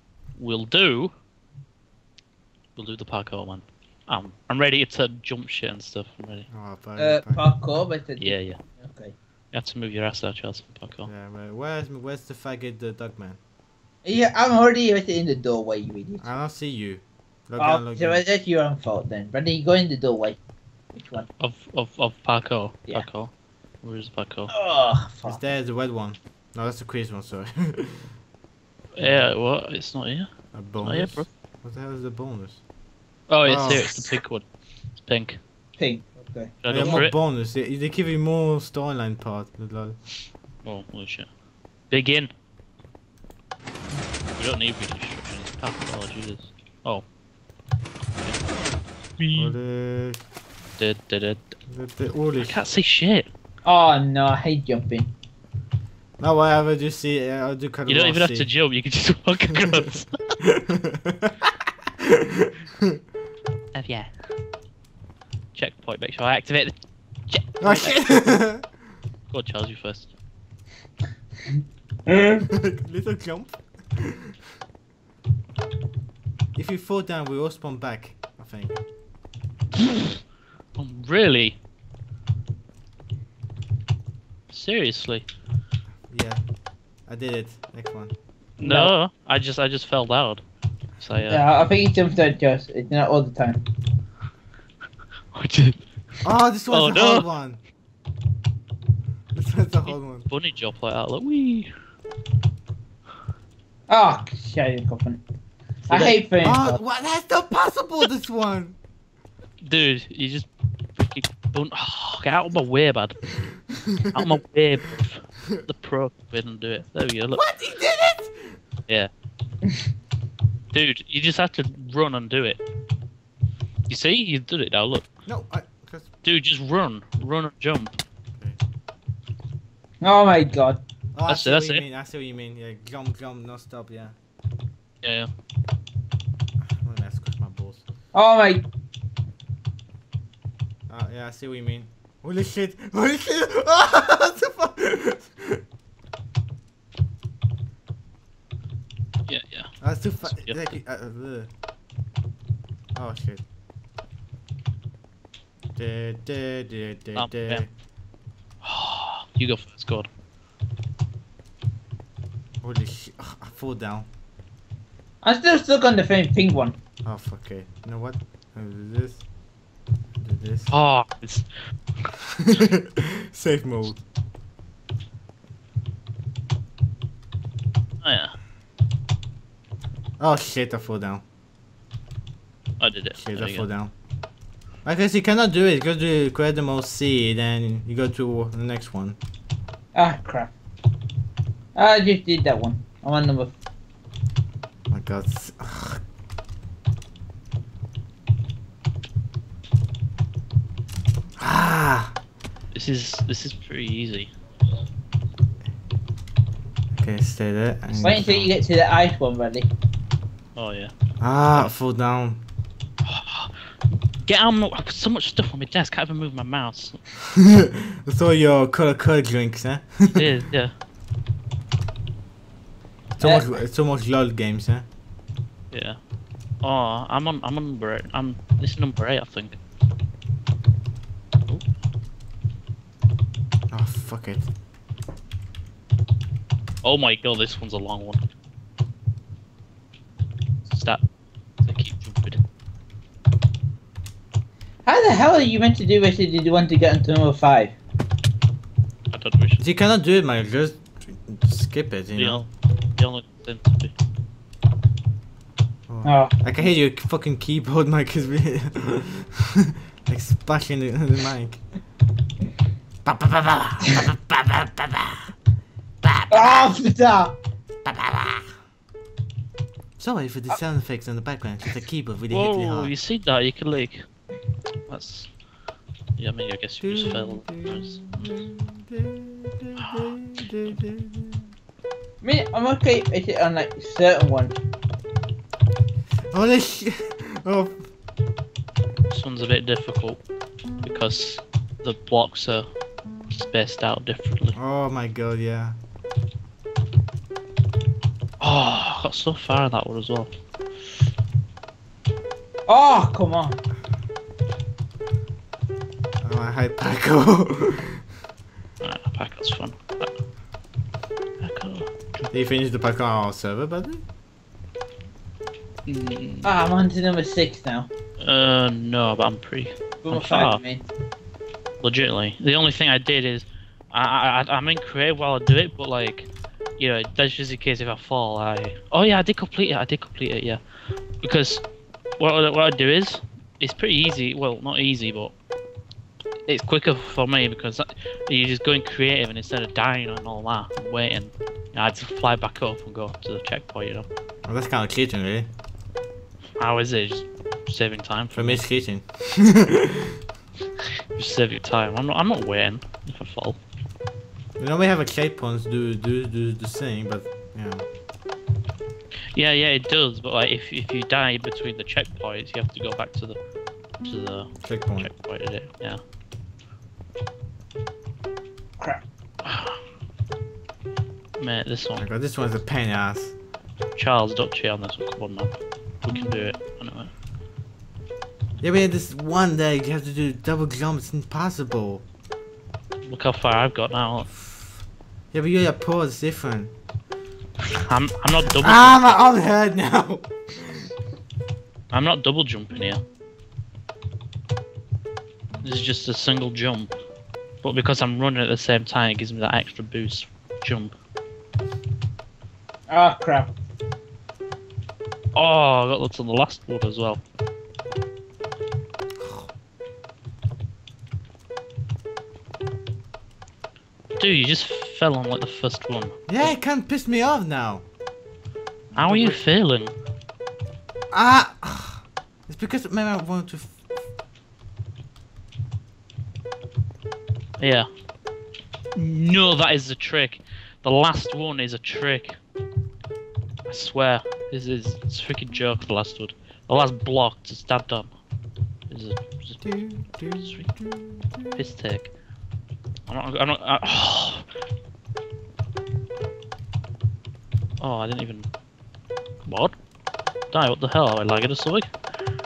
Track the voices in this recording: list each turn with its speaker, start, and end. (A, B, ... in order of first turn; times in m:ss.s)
0:00.4-0:01.1 A
0:02.8-0:06.5 A
0:06.5-0:07.4 B
0:07.0-0:09.1 C
0:08.2-0:08.6 A
0:09.5-0:11.1 A
0:11.0-0:13.4 B
0:14.0-0:16.2 C
0:16.2-0:18.2 B
0:17.6-0:20.4 C
0:21.0-0:21.3 C
0:21.4-0:23.3 A
0:23.8-0:24.5 A
0:24.5-0:25.4 C
0:25.2-0:28.1 B
0:28.9-0:30.3 A
0:29.0-0:29.3 B
0:30.5-0:32.6 B
0:30.8-0:31.3 A
0:33.3-0:34.4 A
0:33.4-0:33.9 B
0:35.0-0:35.4 A
0:35.8-0:37.0 C
0:36.6-0:37.2 A
0:36.7-0:40.0 B
0:40.6-0:41.3 A
0:41.9-0:42.3 A
0:44.4-0:47.0 A
0:49.2-0:49.5 A
0:49.4-0:50.2 B
0:50.8-0:51.5 A
0:51.7-0:52.6 B
0:52.4-0:53.3 A
0:53.6-0:55.1 C
0:56.2-0:58.5 B
0:57.9-1:00.2 A
0:59.6-1:03.0 B
1:03.7-1:04.1 A
1:05.5-1:06.8 A
1:07.3-1:08.1 A
1:07.6-1:08.7 B
1:09.3-1:10.1 A
1:12.1-1:12.4 C
1:12.4-1:14.4 B
1:16.5-1:18.8 B
1:20.8-1:21.6 A
1:24.5-1:25.2 A
1:26.1-1:26.4 B
1:27.1-1:28.1 B
1:28.6-1:30.4 A
1:28.6-1:28.9 C
1:31.0-1:31.4 A
1:31.3-1:33.6 C
1:35.3-1:35.8 A
1:36.2-1:37.6 B
1:36.7-1:37.3 A
1:39.3-1:40.3 B
1:39.9-1:41.7 A
1:43.9-1:45.2 C
1:45.9-1:46.2 A
1:45.9-1:46.8 C
1:46.4-1:48.8 B
1:49.6-1:53.3 A
1:53.7-1:54.4 B
1:54.1-1:57.4 A
1:57.3-1:58.6 B
2:00.7-2:02.6 A
2:03.9-2:05.1 A
2:05.2-2:06.1 B
2:06.2-2:08.0 A
2:10.0-2:10.8 C
2:11.1-2:14.2 B
2:11.3-2:11.8 A
2:15.0-2:15.3 A
2:16.8-2:17.8 B
2:18.1-2:18.7 C
2:20.9-2:25.6 B
2:29.3-2:30.6 A
2:29.8-2:31.5 B
2:32.9-2:33.4 B
2:35.8-2:37.7 B
2:37.2-2:37.6 A
2:38.6-2:40.1 A
2:42.6-2:44.1 B
2:45.2-2:46.8 C
2:47.0-2:49.2 B
2:50.2-2:50.7 B
2:50.7-2:51.5 A
2:52.3-2:54.0 B
2:58.0-2:58.3 A
3:00.2-3:01.2 B
3:02.8-3:03.6 A
3:03.2-3:03.9 B
3:04.8-3:09.2 B
3:09.9-3:10.5 C
3:11.7-3:13.5 C
3:14.9-3:16.0 B
3:21.4-3:22.2 B
3:22.7-3:24.3 A
3:26.9-3:28.5 B
3:27.9-3:29.7 C
3:30.6-3:30.9 A
3:31.2-3:32.4 B
3:33.0-3:33.6 A
3:34.2-3:37.0 A
3:37.3-3:40.3 B
3:40.1-3:40.7 A
3:43.2-3:44.8 B
3:45.7-3:46.0 A
3:46.6-3:49.6 A
3:53.7-3:54.5 B
3:56.8-3:58.2 A
4:00.6-4:01.0 A
4:01.6-4:02.4 A
4:04.8-4:07.8 C
4:09.1-4:09.6 A
4:09.6-4:12.4 B
4:12.2-4:13.9 A
4:15.9-4:21.6 B
4:16.0-4:16.3 C
4:23.0-4:25.3 B
4:26.0-4:26.8 B
4:26.3-4:27.4 C
4:27.8-4:28.5 B
4:30.0-4:32.9 B
4:32.3-4:34.1 A
4:34.9-4:35.3 A
4:36.2-4:38.3 A
4:36.8-4:41.4 B
4:39.8-4:40.0 A
4:42.2-4:44.6 C
4:46.3-4:47.8 B
4:49.1-4:50.2 A
4:50.8-4:52.7 A
4:53.3-4:54.6 A
4:54.5-4:55.8 B
4:58.4-5:00.3 A
5:02.7-5:03.6 C
5:06.2-5:08.0 B
5:08.8-5:10.1 A
5:11.4-5:12.3 A
5:12.3-5:14.0 B
5:15.9-5:16.5 A
5:16.4-5:17.9 C
5:18.2-5:20.6 A
5:20.0-5:20.8 C
5:21.8-5:30.6 A
5:31.2-5:31.6 A
5:32.2-5:35.3 A
5:36.5-5:44.1 A
5:44.4-5:45.5 B
5:46.6-5:48.6 A
5:48.3-5:50.2 B
5:51.1-5:53.6 A
5:54.6-5:57.8 B
5:59.3-6:03.4 A
6:04.0-6:06.0 A
6:04.6-6:05.1 B
6:09.4-6:09.8 A
6:11.4-6:12.0 A
6:12.0-6:13.3 B
6:14.0-6:17.1 A
6:18.6-6:22.0 B
6:23.1-6:24.3 A
6:25.3-6:26.7 B
6:27.7-6:29.2 A
6:28.6-6:30.9 B
6:31.9-6:33.0 A
6:35.6-6:36.9 A
6:37.6-6:40.9 A
6:42.9-6:43.5 C
6:45.3-6:47.2 A
6:49.2-6:49.5 B
6:54.2-6:56.5 A
6:56.3-6:57.8 B
6:58.9-6:59.4 B
6:58.9-6:59.9 A
7:01.1-7:03.8 B
7:07.6-7:07.9 A
7:08.9-7:12.4 A
7:13.7-7:18.1 A
7:18.9-7:19.6 A
7:19.6-7:21.6 B
7:20.4-7:20.7 A
7:21.5-7:22.1 A
7:23.1-7:24.4 A
7:27.8-7:28.5 A
7:29.4-7:29.7 A
7:30.5-7:31.9 A